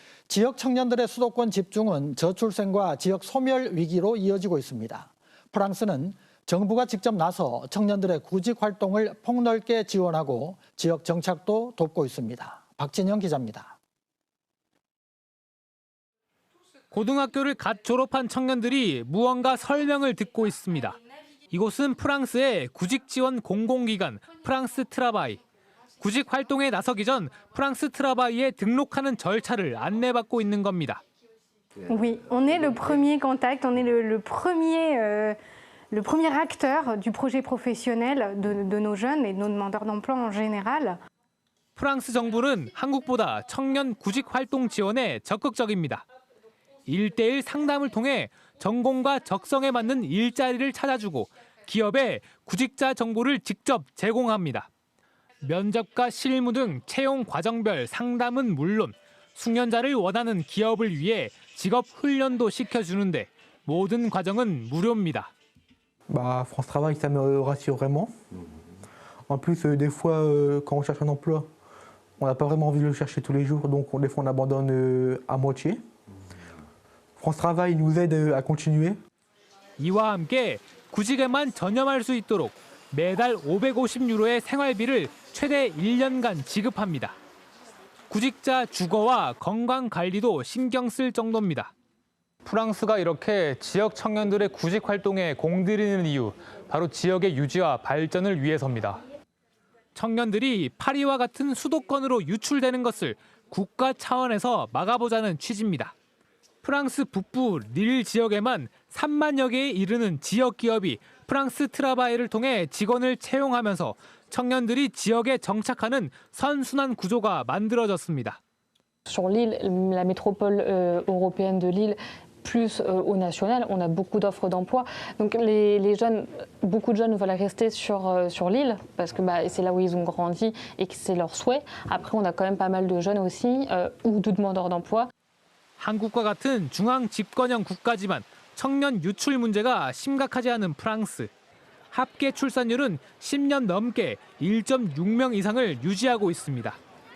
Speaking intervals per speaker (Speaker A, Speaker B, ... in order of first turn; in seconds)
Speaker A: 0.3-13.8
Speaker B: 16.9-21.0, 21.5-25.4, 26.0-31.0, 41.8-46.0, 46.9-54.7, 55.4-65.3, 79.8-87.2, 88.1-91.7, 92.4-99.0, 99.9-105.9, 106.6-118.4, 135.8-141.3, 141.9-146.8
Speaker C: 31.9-35.4, 35.9-41.0
Speaker D: 66.1-68.1, 69.3-71.5, 72.2-75.8, 77.2-79.0
Speaker E: 119.1-135.1